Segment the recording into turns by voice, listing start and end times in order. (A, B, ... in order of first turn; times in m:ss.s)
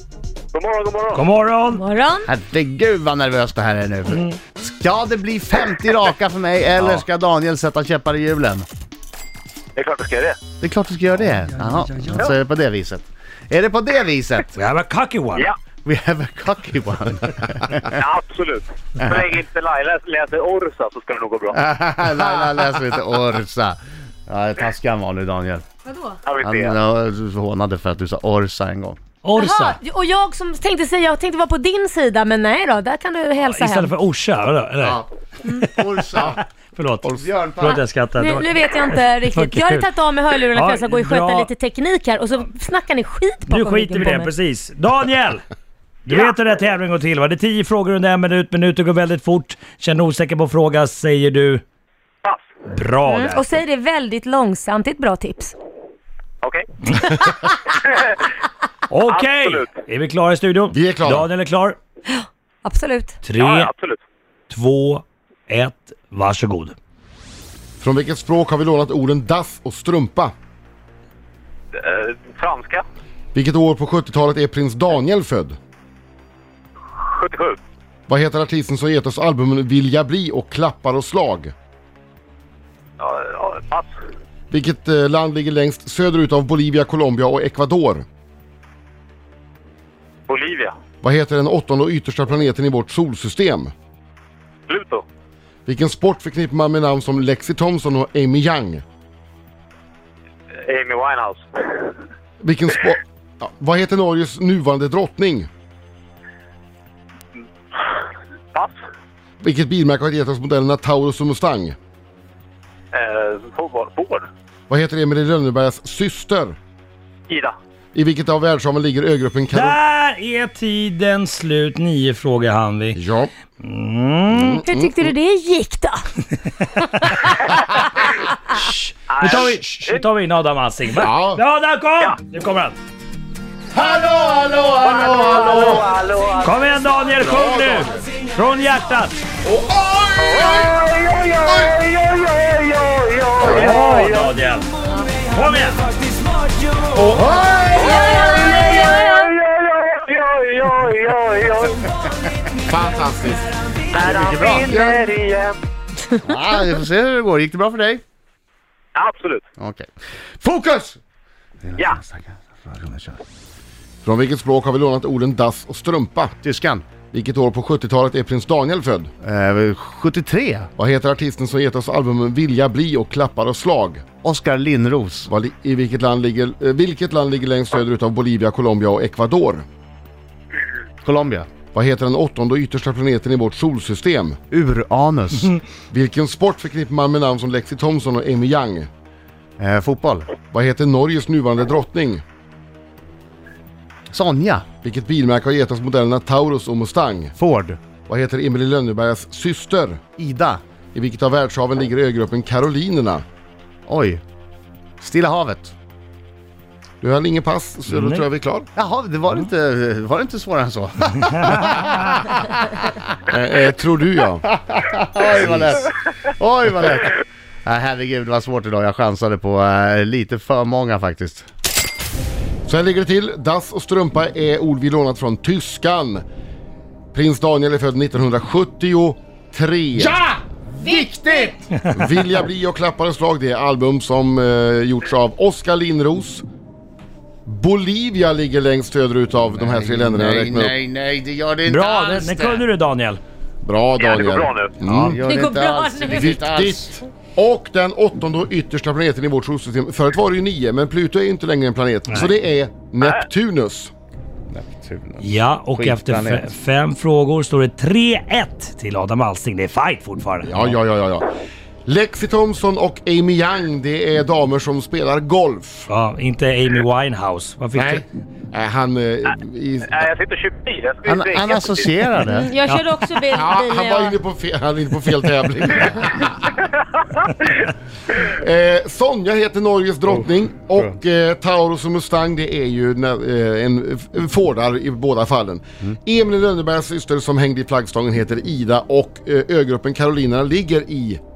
0:00.5-0:01.2 A
0:01.1-0:01.8 B
0:01.7-0:02.3 C
0:02.2-0:08.7 D
0:06.8-0:07.0 B
0:09.8-0:10.4 A
0:10.6-0:14.5 D
0:14.6-0:15.5 B
0:15.8-0:17.9 D
0:18.0-0:21.6 A
0:21.6-0:25.7 D
0:25.8-0:26.2 C
0:26.2-0:26.8 A
0:26.4-0:29.0 D
0:29.2-0:29.8 B
0:29.4-0:33.9 C
0:33.4-0:41.5 B
0:34.8-0:35.1 D
0:35.7-0:36.4 D
0:37.0-0:37.8 D
0:38.2-0:44.3 C
0:43.5-0:45.4 B
0:46.0-0:51.6 B
0:52.7-0:53.6 B
0:53.0-0:55.5 C
0:56.4-0:58.2 A
0:58.9-1:01.8 B
0:59.1-0:59.7 A
1:00.7-1:01.3 E
1:02.6-1:03.2 C
1:03.2-1:03.7 B
1:03.3-1:04.0 A
1:04.5-1:06.8 B
1:07.8-1:10.3 E
1:11.7-1:12.8 A
1:13.3-1:15.6 E
1:17.0-1:17.6 A
1:18.1-1:21.5 E
1:23.0-1:23.9 A
1:24.5-1:28.0 E
1:30.3-1:30.7 A
1:31.0-1:33.7 E
1:34.7-1:35.0 A
1:35.7-1:38.8 E
1:40.6-1:41.9 A
1:42.4-1:45.5 E
1:49.4-1:51.8 E
1:52.9-1:54.3 A
1:54.7-1:56.6 E
1:57.3-1:57.6 A
1:57.9-1:59.8 E
1:59.5-2:03.0 B
2:03.0-2:03.3 E
2:03.6-2:04.6 B
2:04.3-2:05.1 E
2:04.6-2:06.0 C
2:07.0-2:12.8 B
2:09.1-2:10.0 A
2:11.0-2:11.4 E
2:13.8-2:15.4 C
2:14.7-2:17.0 A
2:15.2-2:15.8 E
2:16.4-2:19.2 B
2:17.2-2:18.0 E
2:19.4-2:20.8 E
2:20.1-2:24.4 A
2:23.4-2:23.8 E
2:23.4-2:24.7 B
2:25.3-2:25.8 B
2:26.9-2:27.3 E
2:27.1-2:28.1 D
2:27.8-2:32.0 A
2:27.8-2:28.6 E
2:28.1-2:28.5 C
2:32.6-2:33.6 E
2:33.8-2:35.6 A
2:34.3-2:35.0 E
2:36.2-2:38.0 D
2:39.0-2:39.4 A
2:39.6-2:39.9 D
2:40.4-2:41.0 D
2:41.7-2:43.2 D
2:44.0-2:46.3 E
2:46.4-2:46.9 D
2:47.1-2:49.1 E
2:49.2-2:50.7 D
2:50.8-2:54.0 E
2:54.2-2:55.3 D
2:55.3-2:59.6 E
3:01.0-3:01.5 D
3:01.7-3:04.4 E
3:04.5-3:05.5 D
3:05.9-3:08.9 E
3:09.6-3:10.3 D
3:10.5-3:12.2 E
3:14.1-3:14.7 D
3:14.8-3:17.3 E
3:17.4-3:17.8 D
3:18.1-3:20.0 E
3:20.2-3:20.6 D
3:20.9-3:23.2 E
3:23.9-3:24.2 D
3:25.0-3:25.7 D
3:27.0-3:28.7 E
3:27.9-3:28.2 B
3:28.8-3:31.9 D
3:31.2-3:32.0 B
3:33.3-3:34.4 E
3:34.5-3:35.9 D
3:35.3-3:35.8 E
3:36.4-3:41.5 D
3:42.7-3:46.2 E
3:47.1-3:50.2 E
3:50.1-3:51.6 D
3:50.8-3:51.5 C
3:51.9-3:56.4 E
3:57.5-4:00.8 E
3:59.5-4:02.6 D
4:01.6-4:03.2 B
4:03.6-4:05.2 E
4:04.0-4:04.7 A
4:04.9-4:07.0 D
4:05.3-4:06.2 C
4:06.0-4:13.9 E
4:14.5-4:16.5 D
4:15.2-4:20.8 B
4:20.4-4:21.2 E
4:21.9-4:25.9 E
4:25.9-4:28.0 B
4:27.7-4:30.1 E
4:29.2-4:31.9 A
4:31.1-4:32.5 D
4:32.2-4:34.2 C
4:32.7-4:33.0 B
4:33.3-4:36.6 E
4:38.2-4:51.2 E